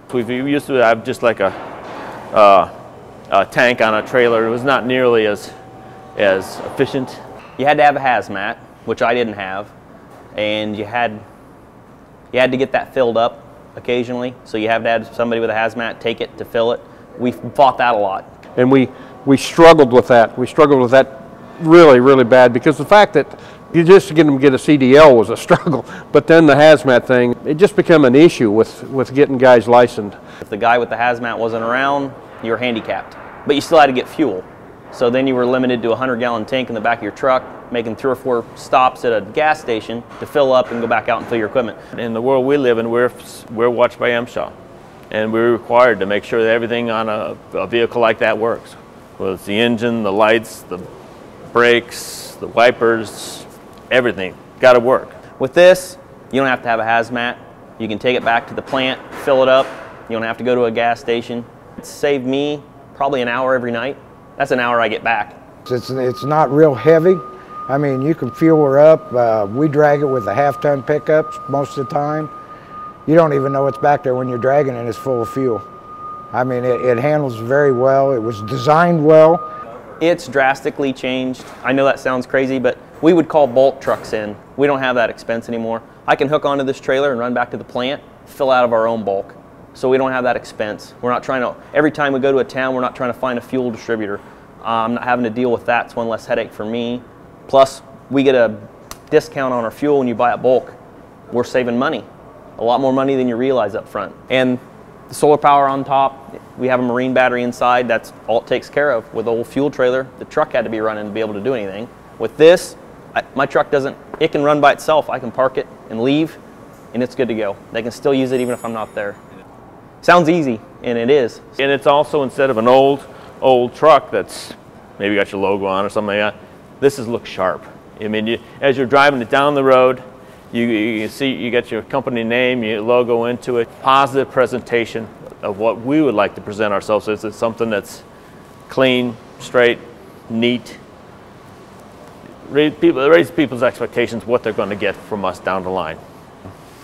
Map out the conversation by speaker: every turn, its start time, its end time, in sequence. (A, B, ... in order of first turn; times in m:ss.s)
0:00.1-0:01.6 A
0:02.3-0:02.7 A
0:03.3-0:05.5 A
0:06.2-0:07.2 A
0:07.6-0:09.7 B
0:10.3-0:11.2 B
0:12.3-0:18.3 B
0:18.6-0:30.2 C
0:30.4-0:41.8 B
0:42.0-0:44.5 A
0:45.1-0:50.9 A
0:51.5-0:55.2 A
0:55.4-1:05.4 B
1:05.7-1:12.3 D
1:13.1-1:15.6 D
1:16.3-1:19.4 D
1:20.0-1:40.8 B
1:41.3-1:42.1 B
1:42.6-1:56.4 B
1:56.9-1:59.2 B
2:00.0-2:01.6 B
2:01.6-2:18.0 A
2:18.7-2:20.8 A
2:22.4-2:26.0 A